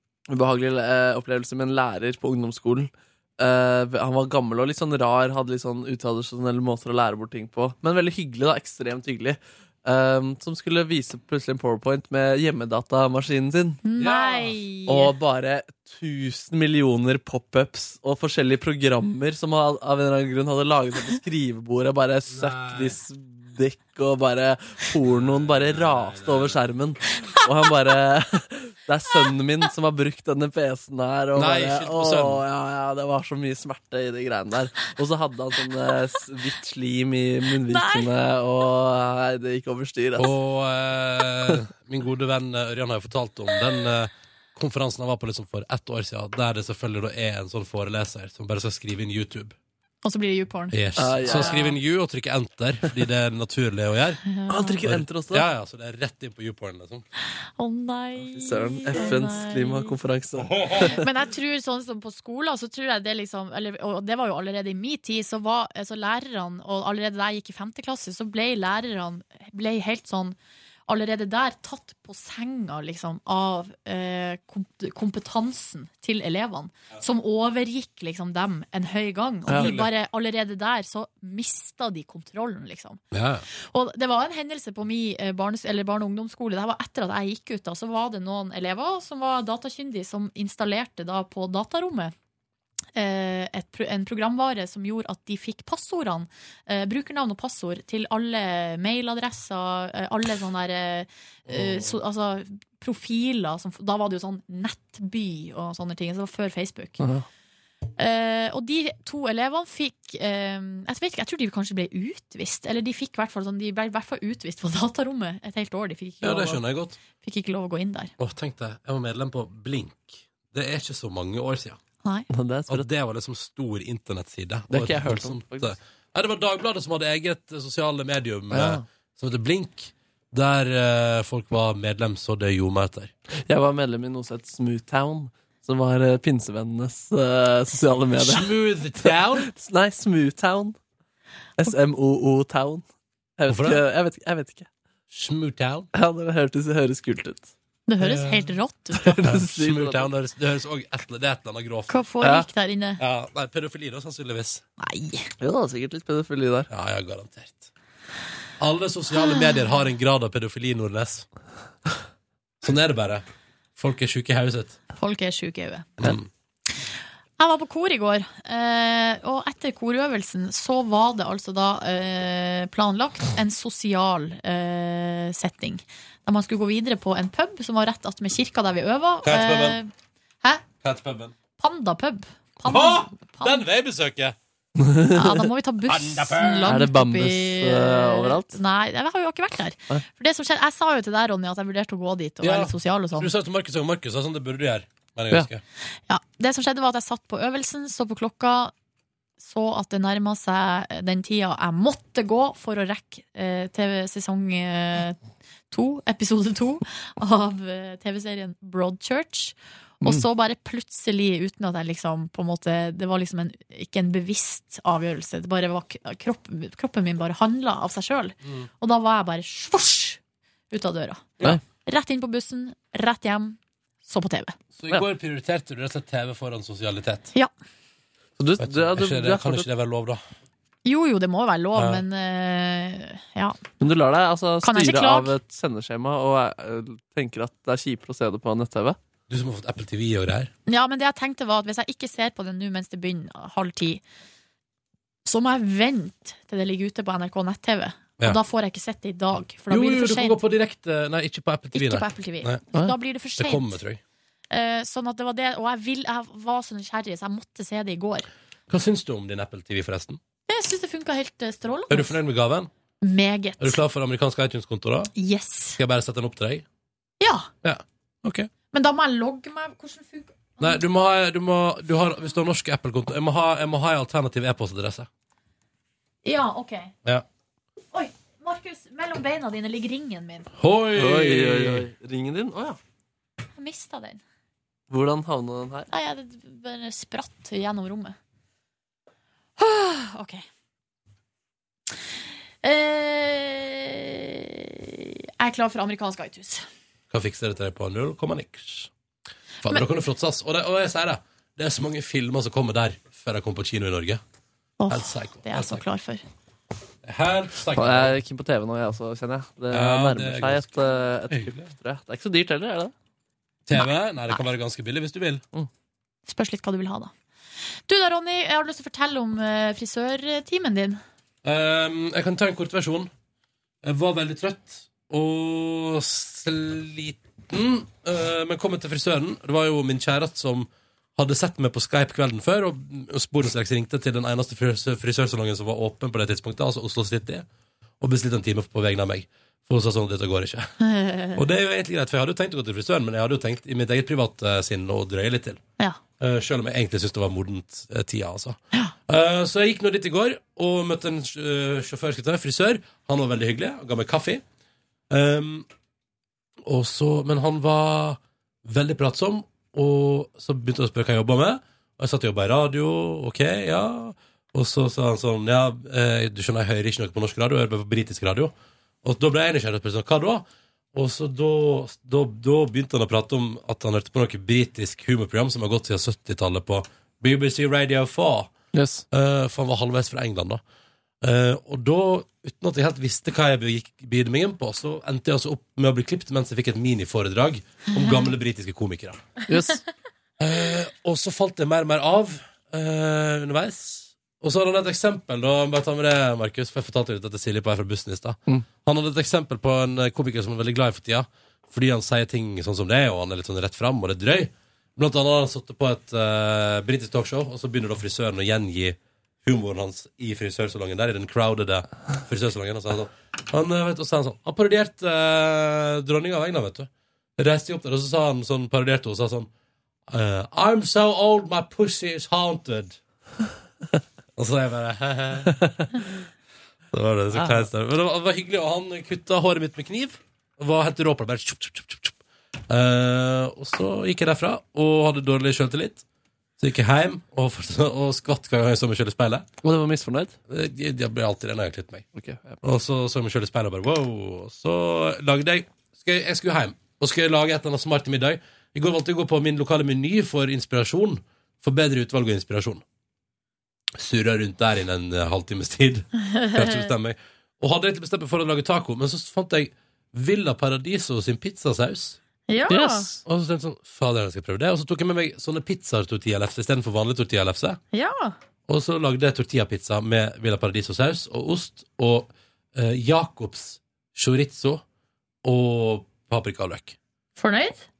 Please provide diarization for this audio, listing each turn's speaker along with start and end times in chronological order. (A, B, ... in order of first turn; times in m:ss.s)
0:00.3-0:13.8 A
0:13.8-0:15.1 B
0:14.0-0:14.6 C
0:14.9-0:40.3 A
0:22.3-0:22.9 C
0:25.0-0:26.6 C
0:31.4-0:32.4 C
0:37.7-0:38.1 B
0:40.2-0:49.5 C
0:50.0-0:51.7 B
0:50.7-0:54.2 C
0:51.0-0:51.7 A
0:54.3-0:54.8 B
0:54.5-0:55.5 A
0:54.8-0:57.0 C
0:57.6-0:59.9 B
0:58.3-1:01.0 A
1:00.8-1:10.4 B
1:10.9-1:32.1 B
1:19.5-1:19.8 A
1:19.5-1:19.9 C
1:23.1-1:23.4 C
1:33.0-1:47.0 B
1:41.5-1:41.9 C
1:47.0-1:47.2 A
1:48.0-1:58.1 B
1:56.2-1:57.0 C
1:58.2-2:01.8 C
2:02.3-2:02.9 A
2:02.7-2:13.1 C
2:04.7-2:05.8 A
2:08.5-2:08.8 A
2:13.4-2:20.8 A
2:18.2-2:19.5 C
2:21.6-2:22.8 A
2:23.4-2:24.7 A
2:23.5-2:23.8 C
2:25.1-2:25.9 C
2:25.9-2:27.5 A
2:27.9-2:29.3 B
2:28.0-2:28.5 C
2:29.0-2:30.1 A
2:29.2-2:32.0 C
2:31.9-2:33.0 B
2:32.2-2:32.5 A
2:33.0-2:34.6 C
2:34.8-2:35.3 B
2:35.4-2:36.7 A
2:36.7-2:37.7 C
2:38.6-2:41.3 C
2:39.2-2:39.6 B
2:42.6-2:43.2 C
2:43.8-2:44.8 C
2:45.0-2:46.0 B
2:46.0-2:46.2 C
2:47.4-2:59.9 B
2:59.2-2:59.8 C
3:00.8-3:01.3 C
3:01.6-3:03.6 B
3:02.6-3:04.4 C
3:04.8-3:05.5 A
3:05.1-3:13.3 B
3:05.9-3:06.8 C
3:06.6-3:08.6 A
3:12.4-3:15.6 C
3:16.1-3:18.7 B
3:19.4-3:25.2 B
3:25.7-3:40.2 B
3:40.7-3:44.5 B
3:44.8-3:47.3 C
3:48.4-3:49.7 A
3:48.6-3:50.2 C
3:50.8-3:53.6 B
3:51.7-3:52.0 C
3:53.8-3:59.0 A
3:54.6-3:55.3 B
3:59.3-4:00.5 C
4:00.7-4:04.0 B
4:05.2-4:10.4 B
4:09.7-4:12.6 C
4:11.7-4:13.8 B
4:13.4-4:14.0 C
4:14.5-4:18.3 B
4:18.7-4:20.2 C
4:20.5-4:22.2 B
4:21.9-4:22.7 C
4:23.0-4:23.8 B
4:23.6-4:25.1 C
4:25.1-4:25.8 B
4:25.8-4:26.6 C
4:27.2-4:27.5 B
4:27.6-4:28.5 C
4:28.7-4:30.8 B
4:30.6-4:35.1 C
4:36.2-4:36.9 B
4:37.9-4:40.5 B
4:40.6-4:41.9 C
4:41.0-4:42.8 A
4:43.6-4:44.2 B
4:44.9-4:45.9 A
4:45.9-4:48.2 B
4:49.6-4:50.4 B
4:52.6-4:56.6 B
4:57.1-4:58.9 C
4:59.6-5:04.2 C
5:04.8-5:06.2 B
5:04.9-5:05.8 C
5:07.0-5:08.2 C
5:07.7-5:12.9 A
5:09.7-5:10.7 C
5:11.3-5:11.7 C
5:13.6-5:15.4 C
5:13.8-5:14.4 B
5:16.3-5:17.1 B
5:17.9-5:21.0 B
5:21.4-5:23.1 C
5:23.8-5:37.4 C
5:38.0-5:40.7 C
5:40.8-5:41.4 B
5:41.3-5:45.6 C
5:46.2-5:54.4 C
5:55.1-5:55.7 C
5:56.6-6:18.5 C
6:18.7-6:19.0 A
6:19.1-6:20.6 C
6:21.2-6:29.4 C
6:29.5-6:29.8 A
6:30.4-6:59.5 C
7:00.1-7:03.0 C
7:04.4-7:05.5 C
7:06.9-7:12.2 C
7:07.3-7:07.7 A
7:12.7-7:16.0 C
7:16.6-7:19.5 C
7:19.6-7:20.4 A
7:20.5-7:22.1 C
7:22.1-7:22.6 A
7:22.6-7:32.8 C
7:33.9-7:42.2 C
7:36.2-7:36.9 B
7:42.5-7:43.1 B
7:42.7-7:43.2 A
7:43.2-7:47.8 C
7:47.9-7:48.4 B
7:48.7-7:54.8 C
7:55.4-7:57.0 C
7:57.4-7:57.9 B